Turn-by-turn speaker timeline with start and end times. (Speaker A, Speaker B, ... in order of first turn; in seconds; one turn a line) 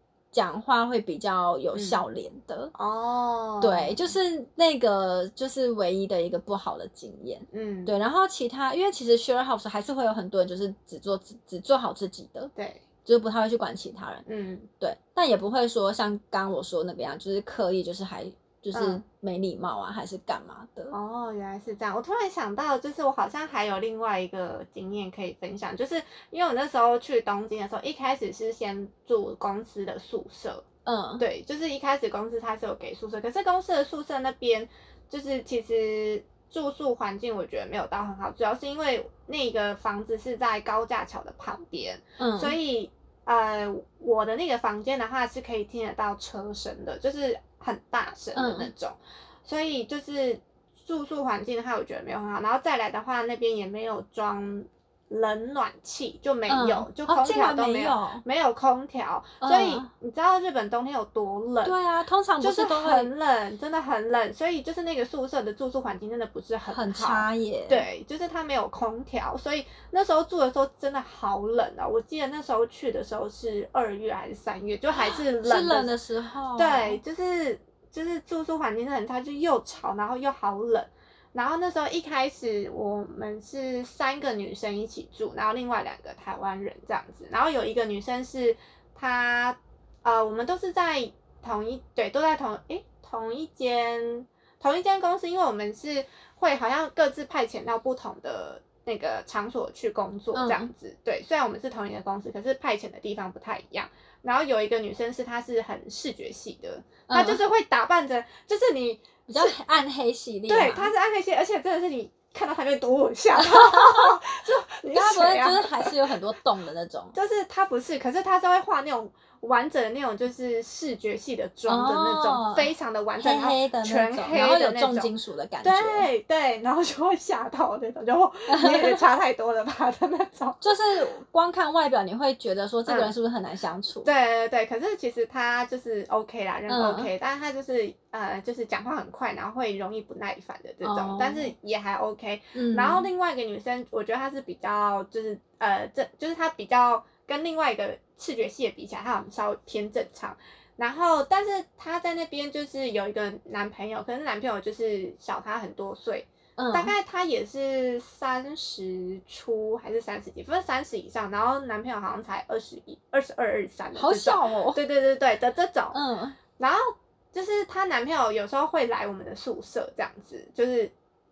Speaker A: 0.3-2.7
Speaker B: 1.7-2.0
Speaker B: 2.7-4.0
Speaker A: 3.6-12.5
Speaker B: 7.5-7.9
Speaker B: 12.6-12.8
Speaker A: 13.1-14.2
Speaker B: 14.2-14.7
Speaker A: 14.8-20.9
Speaker B: 18.7-19.0
Speaker B: 20.9-30.6
Speaker A: 30.8-31.2
Speaker B: 31.2-61.7
Speaker A: 42.2-42.5
Speaker A: 48.3-48.7
Speaker A: 56.5-58.2
Speaker A: 59.4-59.9
Speaker A: 61.6-63.1
Speaker B: 62.4-75.9
Speaker A: 66.7-67.8
Speaker A: 75.0-77.0
Speaker B: 76.5-109.6
Speaker A: 100.3-100.7
Speaker A: 107.1-107.4
Speaker A: 109.3-110.9
Speaker B: 110.5-115.9
Speaker A: 113.3-114.2
Speaker A: 114.9-117.1
Speaker B: 117.1-125.1
Speaker A: 121.7-126.1
Speaker B: 125.6-130.6
Speaker A: 128.5-129.0
Speaker A: 130.6-134.1
Speaker B: 132.9-133.1
Speaker B: 134.0-166.0
Speaker A: 136.7-137.1
Speaker A: 140.8-141.5
Speaker A: 142.5-143.1
Speaker A: 156.6-156.9
Speaker A: 163.9-164.8
Speaker A: 165.9-166.4
Speaker B: 166.6-170.9